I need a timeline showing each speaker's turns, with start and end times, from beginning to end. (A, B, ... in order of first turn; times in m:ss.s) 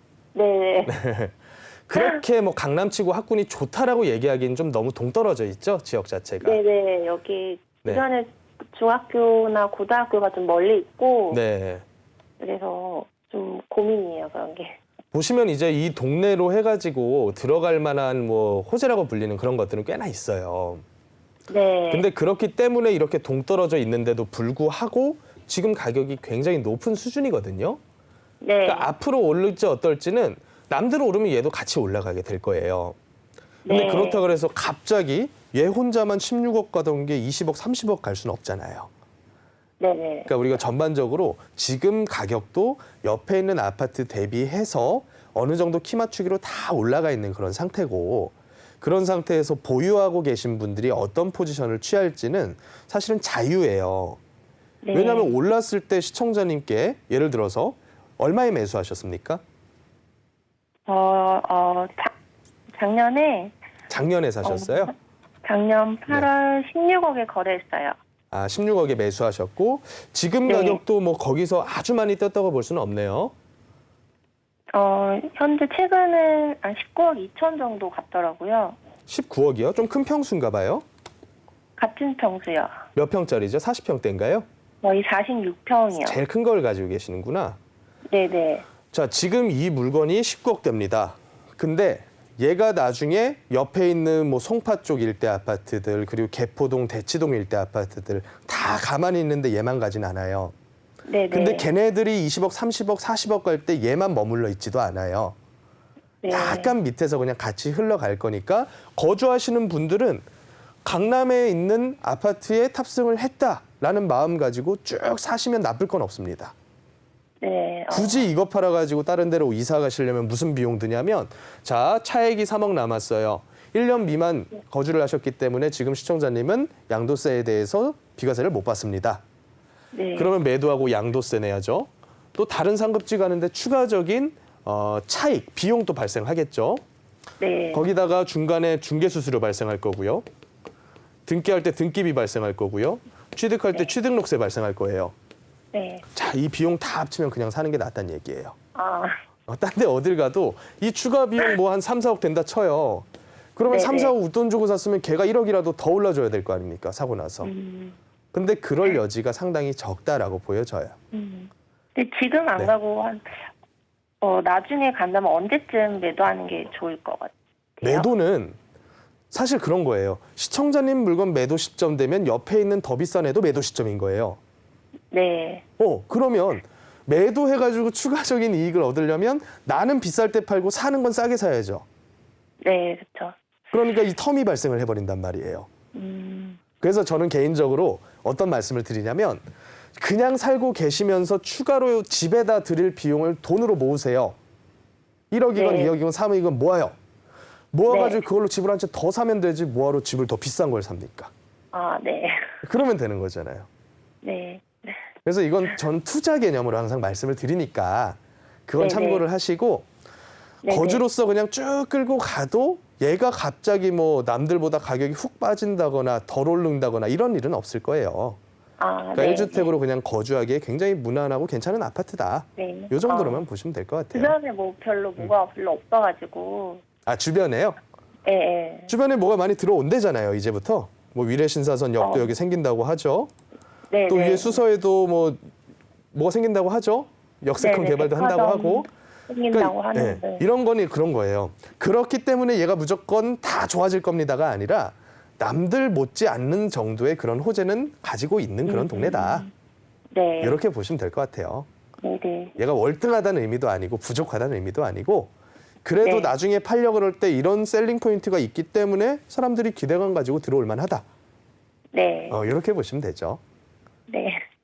0:00.3-0:00.9 A
0:00.8-0:01.3 B
0:01.9-0:06.6 B
0:01.9-0:02.2 A
0:06.4-0:11.4 A
0:11.3-0:11.8 B
0:12.4-0:14.8 A
0:15.1-0:20.8 B
0:21.5-0:22.1 A
0:21.9-0:27.8 B
0:28.4-0:28.9 A
0:28.6-0:33.0 B
0:33.6-0:34.2 A
0:33.7-0:38.9 B
0:39.8-0:40.3 A
0:40.3-0:54.2 B
0:54.8-0:55.3 A
0:54.9-0:59.4 B
1:00.9-1:02.1 A
1:02.7-1:03.5 A
1:03.9-1:04.9 B
1:04.4-1:04.9 A
1:05.4-1:08.0 A
1:08.3-1:13.3 B
1:10.4-1:10.8 A
1:14.7-1:18.8 A
1:19.1-1:20.8 B
1:21.8-1:22.8 A
1:22.9-1:24.4 B
1:24.8-1:26.2 A
1:26.0-1:27.6 B
1:28.1-1:28.7 A
1:28.9-1:40.5 B
1:41.1-1:41.7 A
1:41.3-1:45.3 B
1:46.2-1:46.7 A
1:46.3-1:50.2 B
1:50.8-1:56.5 B
1:57.4-1:58.3 A
1:57.9-2:09.2 B
2:09.9-2:10.3 A
2:10.2-2:16.8 B
2:17.4-2:17.8 A
2:17.7-2:20.2 B
2:21.2-2:25.1 B
2:25.7-2:26.0 A
2:26.1-2:28.5 B
2:28.7-2:29.2 A
2:29.5-2:37.5 B
2:33.7-2:34.1 A
2:37.4-2:38.0 A
2:38.3-2:41.0 B
2:41.1-2:43.4 A
2:44.2-2:48.1 A
2:47.8-2:48.6 B
2:49.3-2:54.4 B
2:55.1-2:55.6 A
2:55.8-3:01.8 B
3:02.6-3:03.3 A
3:03.7-3:05.7 B
3:05.9-3:06.6 A
3:06.8-3:09.4 B
3:10.0-3:14.4 B
3:15.3-3:16.9 B
3:15.5-3:15.9 A
3:17.7-3:21.3 B
3:17.9-3:18.2 A
3:21.7-3:22.5 A
3:22.6-3:23.7 B
3:24.2-3:25.0 A
3:25.2-3:29.9 B
3:28.8-3:29.2 A
3:30.6-3:31.0 A
3:30.7-3:38.4 B
3:38.8-3:39.7 A
3:39.1-3:44.3 B
3:42.6-3:43.4 A
3:44.1-3:46.8 A
3:47.0-3:47.8 B
3:48.2-3:48.9 A
3:48.9-3:53.3 B
3:52.0-3:52.3 A
3:53.9-3:54.6 A
3:54.1-3:55.5 B
3:56.1-3:58.9 B
3:57.6-4:00.4 A
3:59.5-4:09.4 B
4:08.6-4:09.5 A
4:10.1-4:10.6 A
4:10.4-4:11.7 B
4:12.0-4:12.6 A
4:12.6-4:15.3 B
4:15.8-4:21.0 B
4:16.0-4:16.3 A
4:21.9-4:22.4 A
4:22.3-4:23.4 B
4:24.1-4:24.4 A